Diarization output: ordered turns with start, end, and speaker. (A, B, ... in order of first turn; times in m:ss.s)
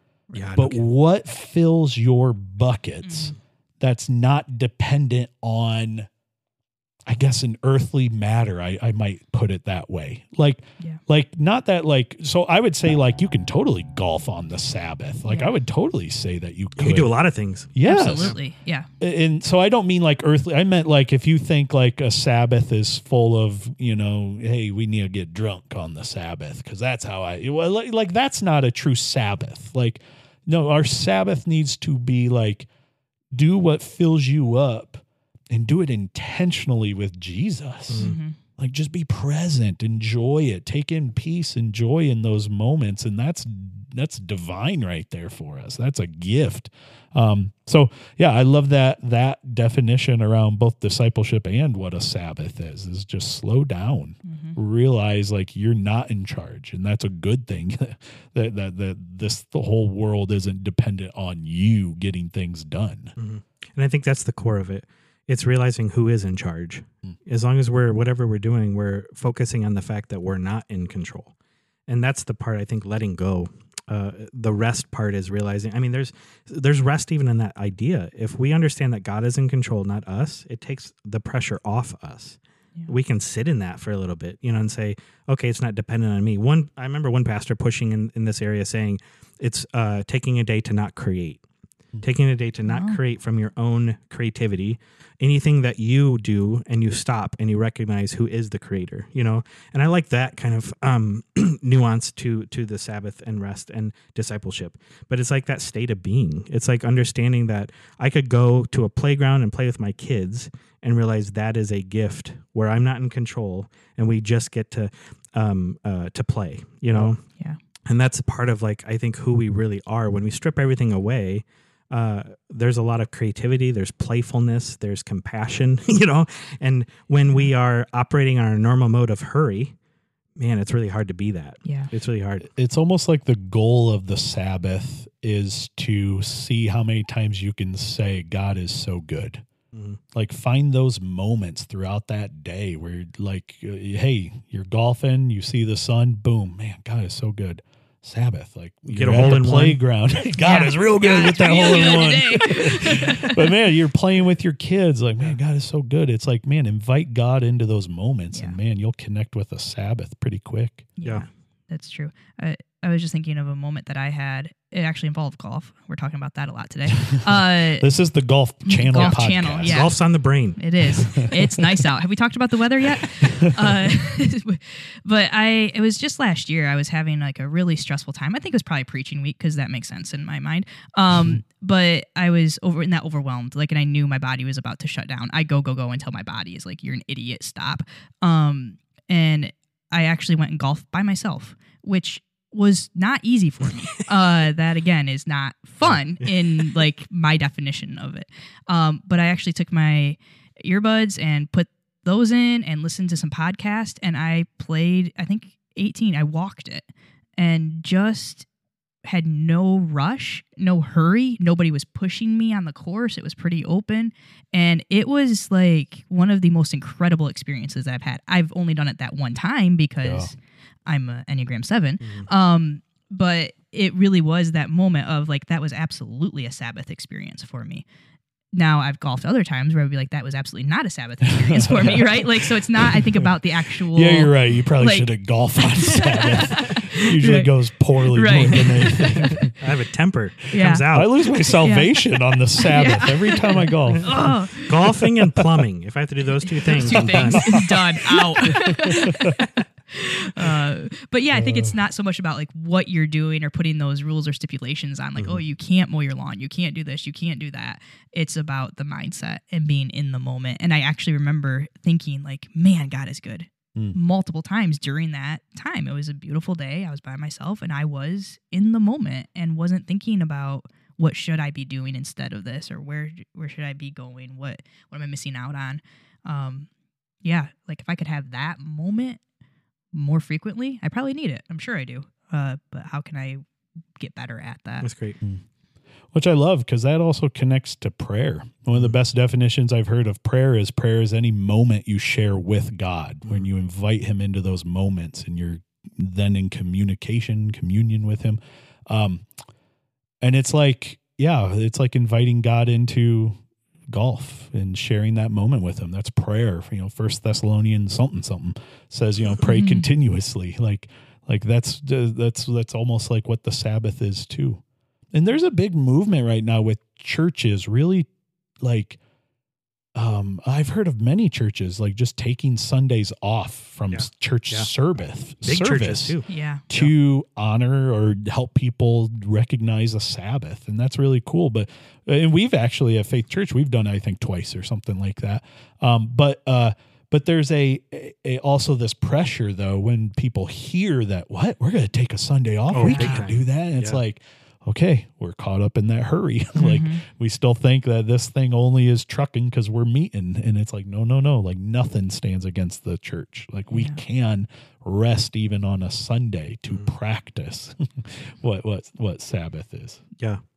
0:00.3-0:00.6 A
0:00.3-0:00.8 B
0:00.5-0:06.1 C
0:03.0-0:03.4 A
0:07.0-0:17.1 C
0:15.2-0:15.5 A
0:16.8-0:18.4 B
0:17.7-0:18.3 C
0:17.8-0:18.9 A
0:19.0-0:32.7 C
0:33.3-1:03.1 C
0:37.9-0:38.2 B
0:38.0-0:38.4 A
0:54.2-0:54.6 A
1:03.2-1:11.3 B
1:11.9-1:31.4 B
1:32.0-1:57.2 B
1:32.6-1:33.0 A
1:57.9-2:09.7 B
2:10.4-2:12.5 B
2:11.6-2:11.9 A
2:12.5-2:19.4 C
2:19.7-2:20.0 B
2:20.1-2:40.9 C
2:28.9-2:29.8 B
2:30.4-2:33.5 A
2:41.0-2:47.9 A
2:47.0-2:49.9 C
2:48.6-2:50.0 A
2:48.9-2:50.6 B
2:50.6-3:28.5 A
2:51.2-2:51.6 C
3:01.2-3:01.4 C
3:15.8-3:16.6 B
3:29.0-3:47.8 A
3:40.0-3:40.3 C
3:42.0-3:42.3 B
3:48.5-3:55.1 A
3:51.2-3:59.5 C
3:55.7-3:59.4 A
3:59.1-4:01.1 B
4:00.5-4:00.9 A
4:00.9-4:04.4 C
4:01.6-4:02.0 A
4:02.6-4:04.9 A
4:03.6-4:04.0 B
4:04.7-4:07.7 B
4:04.9-4:05.4 C
4:06.4-4:36.7 A
4:06.8-4:07.6 C
4:08.4-4:09.3 C
4:11.3-4:11.8 C
4:37.2-4:39.2 A
4:39.9-4:43.4 A
4:44.0-4:44.9 A
4:44.8-4:45.2 B
4:46.1-4:59.3 C
5:00.2-5:18.1 C
5:09.4-5:09.8 A
5:18.6-5:19.0 C
5:19.9-6:00.0 C
5:23.9-5:24.7 B
5:25.4-5:26.9 B
5:26.3-5:26.6 A
5:42.7-5:44.0 B
5:42.8-5:43.2 A
5:46.6-5:47.0 A
5:53.7-5:54.0 A